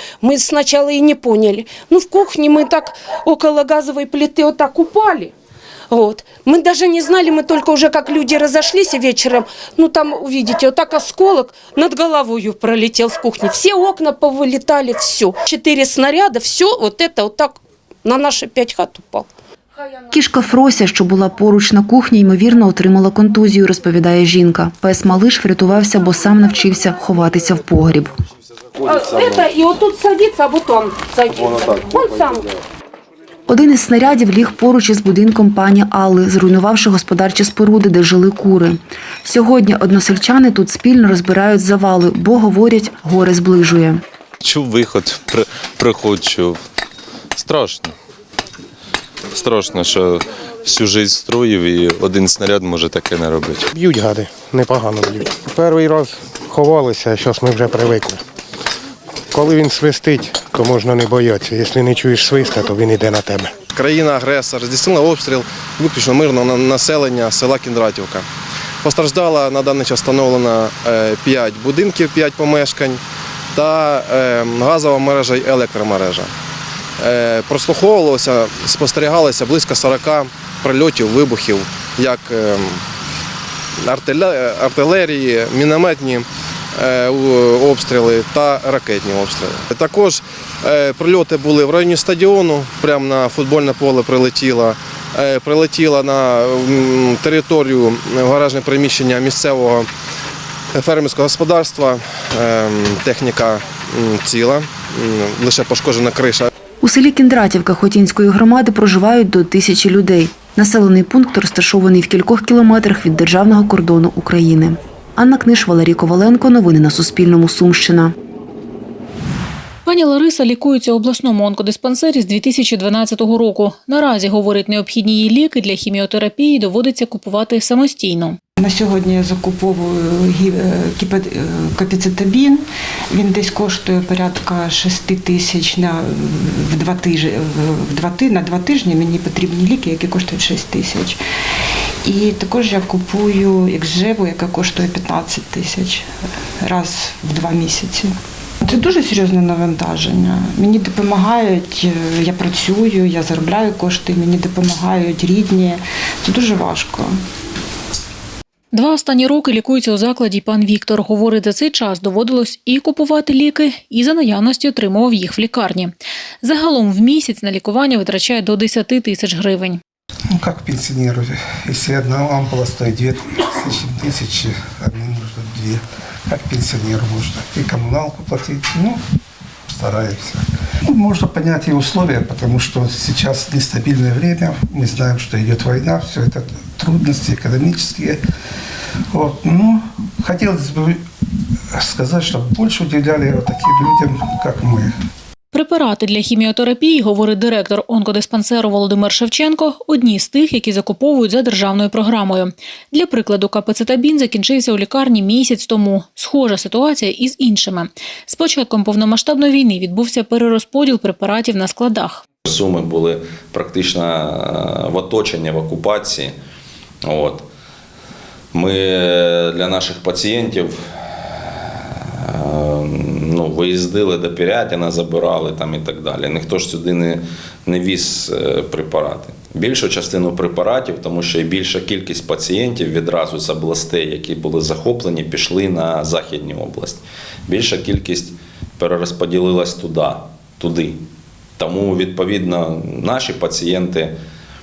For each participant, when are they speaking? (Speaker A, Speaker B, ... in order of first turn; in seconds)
Speaker A: 0.2-5.0, 6.0-17.4, 18.1-18.8
Speaker B: 20.1-28.1, 33.5-44.0, 106.8-118.1
Speaker C: 44.5-46.5, 47.4-47.9, 49.4-53.6
Speaker D: 53.8-58.1, 59.4-63.5
Speaker E: 63.7-68.2, 68.8-73.0, 73.5-76.3, 77.0-82.8, 83.8-99.9, 100.7-106.5
Speaker F: 119.8-128.4, 158.7-169.8, 195.5-212.2
Speaker G: 128.6-141.2, 142.0-146.0, 146.6-148.1, 148.6-157.2
Speaker H: 170.3-179.0, 179.7-188.2, 189.1-191.0, 191.8-194.9
Speaker I: 212.5-216.3, 217.1-217.4, 218.5-220.7, 222.2-241.0, 241.6-244.1